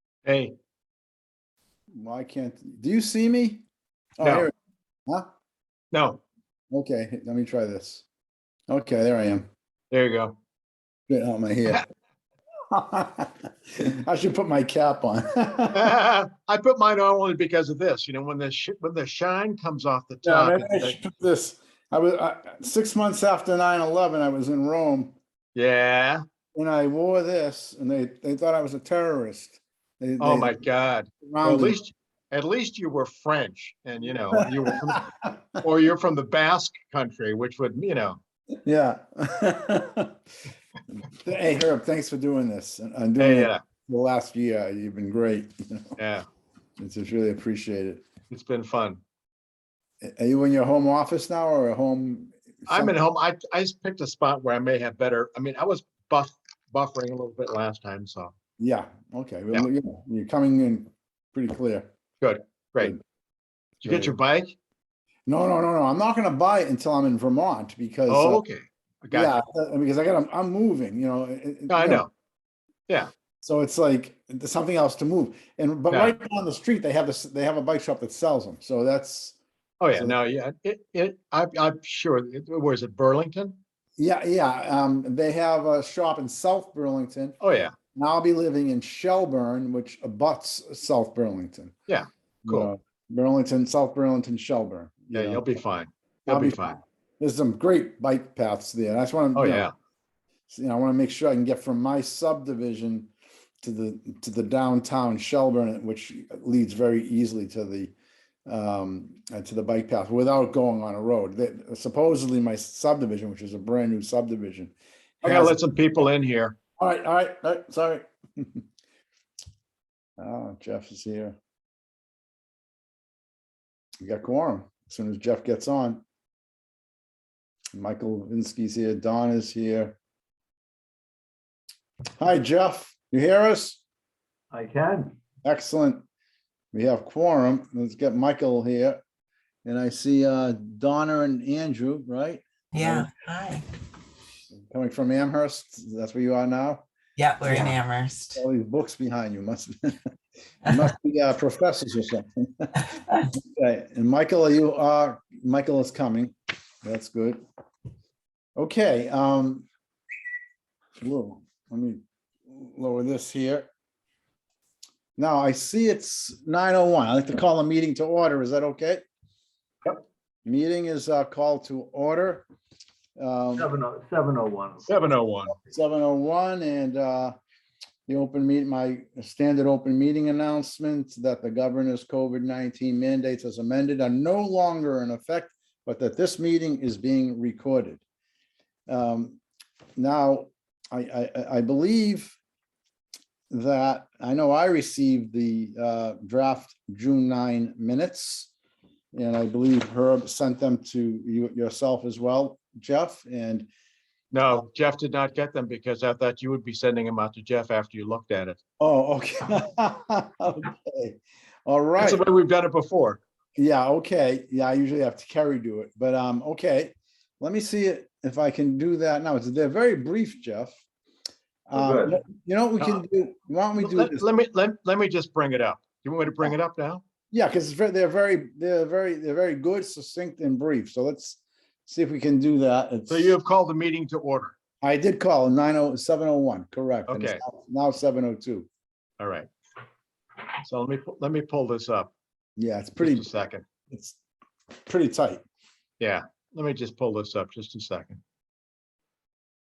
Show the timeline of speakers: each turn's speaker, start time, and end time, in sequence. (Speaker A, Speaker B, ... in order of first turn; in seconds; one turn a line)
Speaker A: 0.2-0.6
Speaker B: 1.9-3.6
Speaker B: 4.2-4.5
Speaker A: 4.2-4.5
Speaker A: 5.9-6.2
Speaker B: 6.7-8.1
Speaker B: 8.7-9.5
Speaker A: 9.9-10.3
Speaker B: 11.1-11.8
Speaker B: 12.7-15.9
Speaker A: 15.7-21.0
Speaker B: 20.2-25.1
Speaker A: 25.5-26.2
Speaker B: 26.5-30.6
Speaker A: 30.2-35.0
Speaker B: 31.2-31.8
Speaker B: 34.3-35.3
Speaker A: 35.6-38.2
Speaker B: 38.6-40.1
Speaker B: 41.1-45.9
Speaker A: 43.2-43.6
Speaker A: 46.0-46.2
Speaker B: 46.8-48.0
Speaker A: 48.3-49.0
Speaker B: 50.0-53.0
Speaker A: 52.7-58.3
Speaker B: 58.6-61.9
Speaker A: 62.2-63.0
Speaker A: 63.8-64.5
Speaker B: 63.8-64.2
Speaker B: 65.2-68.4
Speaker A: 68.1-69.4
Speaker B: 69.1-72.1
Speaker A: 71.7-72.1
Speaker B: 73.4-79.4
Speaker A: 75.9-76.2
Speaker A: 79.8-83.6
Speaker B: 79.9-80.2
Speaker B: 84.0-87.4
Speaker A: 87.4-87.8
Speaker B: 87.9-91.7
Speaker A: 91.9-92.7
Speaker B: 92.5-95.6
Speaker A: 95.1-96.8
Speaker B: 96.3-96.7
Speaker B: 97.2-99.7
Speaker A: 99.3-99.7
Speaker B: 100.5-103.1
Speaker B: 103.6-107.9
Speaker B: 108.5-116.1
Speaker A: 115.2-116.6
Speaker B: 116.8-118.6
Speaker B: 120.2-121.3
Speaker B: 124.0-126.0
Speaker B: 127.7-130.0
Speaker B: 132.2-133.8
Speaker C: 134.5-135.2
Speaker B: 135.4-136.0
Speaker B: 136.7-139.0
Speaker B: 139.6-143.1
Speaker D: 142.7-143.6
Speaker B: 144.7-146.8
Speaker D: 147.2-148.4
Speaker B: 147.5-147.7
Speaker B: 148.3-150.0
Speaker B: 150.7-152.8
Speaker B: 153.3-157.4
Speaker B: 158.6-159.7
Speaker B: 161.0-163.7
Speaker B: 165.2-169.0
Speaker B: 170.4-172.4
Speaker B: 173.2-173.7
Speaker C: 173.6-174.9
Speaker A: 174.8-175.6
Speaker B: 175.6-177.3
Speaker B: 178.1-188.0
Speaker B: 188.9-189.4
Speaker B: 190.0-192.3
Speaker B: 193.5-198.5
Speaker B: 199.1-203.7
Speaker A: 204.3-208.6
Speaker B: 208.8-212.2
Speaker A: 212.0-213.2
Speaker B: 213.6-220.8
Speaker B: 221.7-224.3
Speaker C: 221.8-222.1
Speaker A: 223.8-227.0
Speaker B: 227.3-233.4
Speaker A: 233.1-234.6
Speaker B: 234.8-238.7
Speaker A: 237.1-237.4
Speaker A: 239.2-239.5
Speaker A: 240.6-242.1
Speaker B: 242.6-243.3
Speaker A: 243.0-243.7
Speaker B: 243.9-244.2
Speaker B: 244.8-245.4
Speaker A: 246.0-248.2